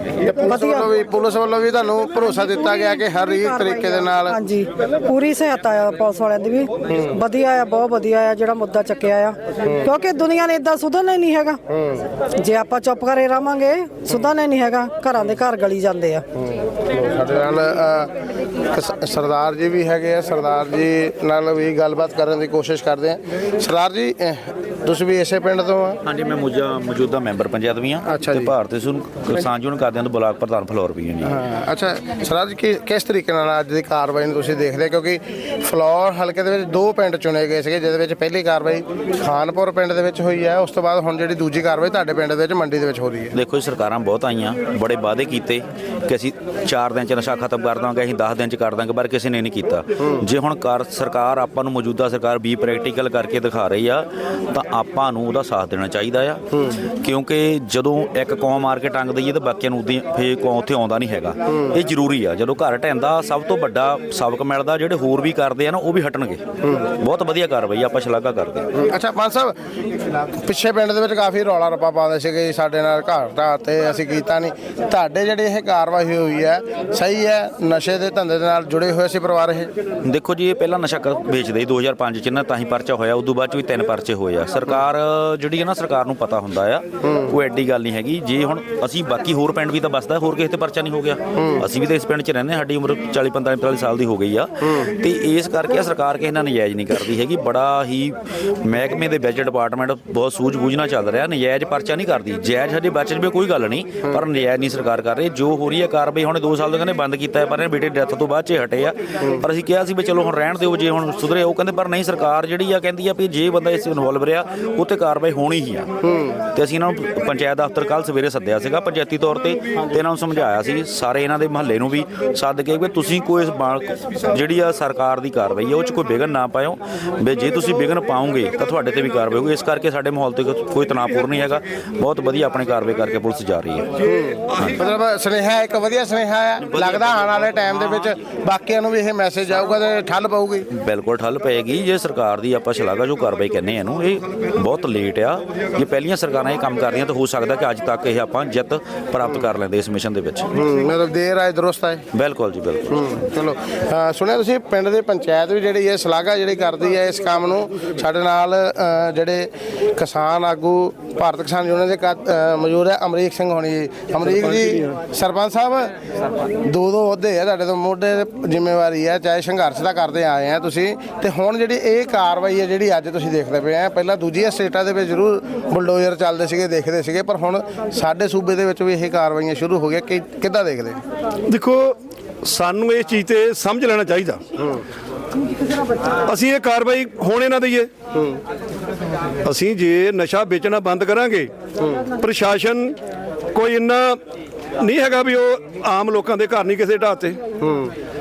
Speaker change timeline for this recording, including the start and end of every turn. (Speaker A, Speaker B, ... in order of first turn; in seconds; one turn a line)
Speaker A: 0.2-4.4
Speaker B: 0.5-0.9
Speaker B: 2.3-11.6
Speaker A: 6.9-7.1
Speaker A: 11.7-12.1
Speaker B: 12.3-16.2
Speaker A: 16.4-18.1
Speaker A: 18.6-26.0
Speaker C: 26.1-31.4
Speaker A: 28.1-28.5
Speaker A: 31.2-43.4
Speaker C: 43.3-66.4
Speaker A: 66.6-66.9
Speaker C: 67.0-68.7
Speaker A: 68.8-69.6
Speaker A: 70.4-79.7
Speaker C: 80.0-115.9
Speaker A: 87.1-87.3
Speaker A: 91.4-91.7
Speaker A: 116.0-116.4
Speaker C: 116.5-133.9
Speaker A: 134.0-140.7
Speaker C: 134.5-134.8
Speaker C: 136.6-138.2
Speaker C: 140.7-150.5
Speaker A: 150.5-152.1
Speaker C: 152.1-152.9
Speaker A: 152.9-165.9
Speaker A: 166.6-181.0
Speaker D: 181.5-184.4
Speaker D: 186.2-187.9
Speaker D: 189.4-191.5
Speaker D: 192.2-193.0
Speaker D: 193.5-194.2
Speaker D: 194.8-197.4